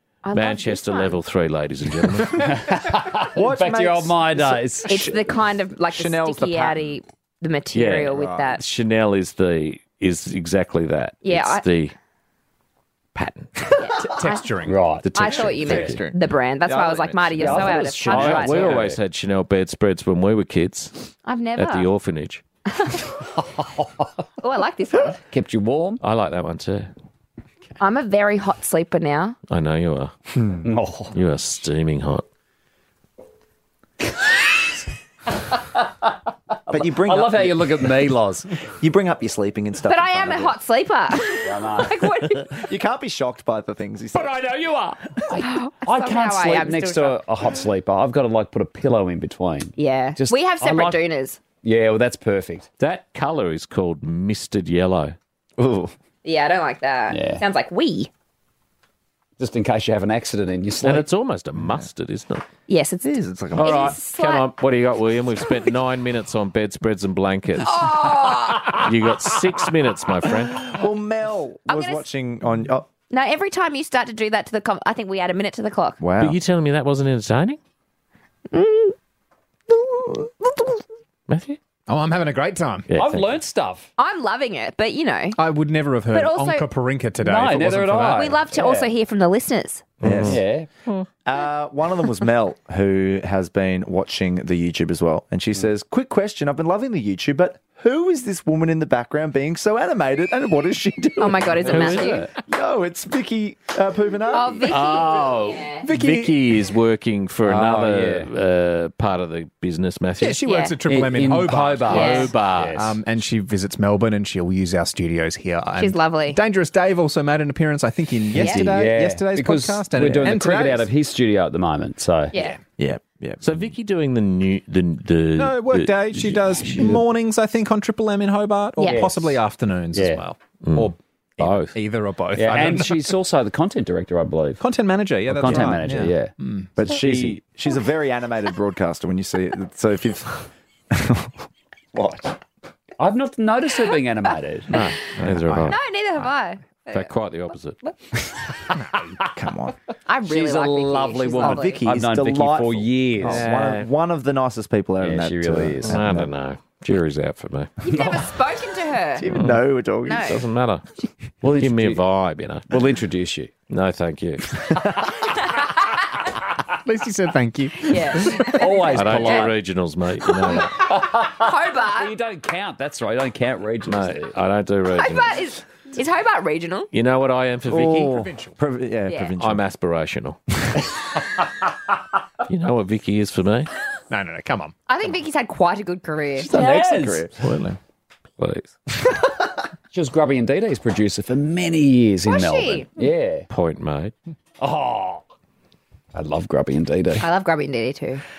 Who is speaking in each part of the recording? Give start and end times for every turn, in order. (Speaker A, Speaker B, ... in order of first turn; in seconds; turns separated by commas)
Speaker A: 0.2-1.2, Speaker B: 0.3-2.5, Speaker C: 2.3-5.0, Speaker D: 3.3-7.0, Speaker A: 4.8-8.6, Speaker B: 7.7-11.9, Speaker D: 8.1-8.6, Speaker A: 11.2-11.6, Speaker B: 13.1-13.5, Speaker E: 13.7-15.6, Speaker A: 13.8-14.1, Speaker C: 14.7-15.4, Speaker A: 15.1-18.8, Speaker B: 15.3-16.0, Speaker D: 15.6-16.1, Speaker D: 16.6-17.9, Speaker C: 17.4-19.0, Speaker B: 17.6-22.4, Speaker A: 21.2-21.9, Speaker A: 22.7-23.1, Speaker C: 23.4-24.0, Speaker A: 24.4-25.2, Speaker C: 25.2-26.0, Speaker B: 26.0-26.9, Speaker A: 27.8-29.4, Speaker B: 29.5-30.1, Speaker D: 30.4-30.7, Speaker C: 30.6-31.1, Speaker B: 31.1-32.2, Speaker D: 36.7-37.7, Speaker C: 36.7-38.5, Speaker D: 38.8-40.5, Speaker A: 39.9-42.6, Speaker C: 41.4-42.0, Speaker D: 42.5-44.4, Speaker B: 44.1-45.0, Speaker C: 45.3-51.0, Speaker A: 45.3-47.2, Speaker A: 49.8-51.4, Speaker C: 51.6-52.7, Speaker B: 52.8-55.1, Speaker D: 55.6-55.9, Speaker A: 56.2-58.1, Speaker C: 57.1-57.4, Speaker C: 59.4-61.0, Speaker B: 60.8-62.4, Speaker D: 61.6-61.9, Speaker A: 62.7-64.5, Speaker D: 63.0-63.9, Speaker B: 63.5-67.9, Speaker A: 67.6-68.8, Speaker B: 68.8-70.7, Speaker D: 70.6-72.9, Speaker A: 71.7-72.0, Speaker A: 73.1-76.0, Speaker D: 76.0-76.4, Speaker B: 76.2-77.6, Speaker A: 78.5-78.9, Speaker A: 79.7-80.8, Speaker B: 81.3-81.6, Speaker E: 81.9-82.9, Speaker B: 82.9-83.3, Speaker C: 82.9-83.9, Speaker A: 84.0-85.4, Speaker E: 85.3-88.4, Speaker A: 86.1-86.7, Speaker C: 87.2-88.9, Speaker A: 88.1-89.8, Speaker B: 90.0-91.1, Speaker D: 90.0-90.4, Speaker C: 90.1-90.7, Speaker D: 91.2-104.7, Speaker A: 101.2-102.2, Speaker C: 101.7-102.3, Speaker B: 101.7-102.0, Speaker A: 104.3-105.8, Speaker B: 104.6-110.4, Speaker E: 105.8-106.4, Speaker C: 107.4-108.3, Speaker E: 110.2-120.9, Speaker A: 110.4-110.7, Speaker C: 110.9-113.0, Speaker B: 111.9-112.8, Speaker A: 111.9-112.3, Speaker A: 115.8-116.4, Speaker C: 118.3-122.3, Speaker A: 118.3-118.7, Speaker D: 120.0-120.3, Speaker A: 122.3-122.6, Speaker D: 122.8-123.7, Speaker B: 123.4-126.2, Speaker E: 125.3-133.1, Speaker C: 126.2-127.0, Speaker A: 128.8-129.0, Speaker C: 128.8-129.4, Speaker C: 129.9-130.2, Speaker B: 130.6-131.7, Speaker C: 132.3-134.6, Speaker E: 134.6-136.7, Speaker C: 135.3-137.4, Speaker D: 135.4-135.8, Speaker D: 136.8-142.4, Speaker C: 143.0-144.8, Speaker B: 144.7-145.8, Speaker E: 145.2-145.8, Speaker A: 145.7-147.1, Speaker B: 146.9-147.8, Speaker E: 148.8-149.1, Speaker D: 149.2-149.7, Speaker A: 150.1-151.8, Speaker C: 150.2-153.7, Speaker D: 151.3-156.3, Speaker B: 153.2-153.9, Speaker C: 155.0-156.0, Speaker B: 155.8-157.7, Speaker A: 157.8-159.3, Speaker C: 157.8-158.3, Speaker D: 159.2-160.4, Speaker B: 159.3-159.6, Speaker A: 160.1-160.4, Speaker B: 160.2-160.8, Speaker C: 161.4-162.0, Speaker B: 161.4-162.8, Speaker C: 162.7-163.5, Speaker B: 163.7-164.6, Speaker A: 165.4-165.7, Speaker E: 166.8-168.5, Speaker A: 167.8-169.5, Speaker C: 168.6-169.5, Speaker B: 168.9-170.8, Speaker C: 170.7-174.3, Speaker A: 171.4-172.1, Speaker B: 173.8-175.4, Speaker A: 174.9-176.9, Speaker B: 176.9-178.1, Speaker D: 177.7-179.6, Speaker E: 178.0-178.5, Speaker B: 179.4-180.4, Speaker B: 182.4-183.7, Speaker E: 184.1-184.7, Speaker A: 184.9-186.7, Speaker D: 186.3-187.6, Speaker C: 186.5-187.3, Speaker B: 187.4-187.8, Speaker B: 188.4-188.7, Speaker C: 189.9-193.4, Speaker A: 192.2-192.8, Speaker B: 193.5-194.1, Speaker C: 194.6-195.2, Speaker C: 196.1-197.2, Speaker A: 197.2-198.2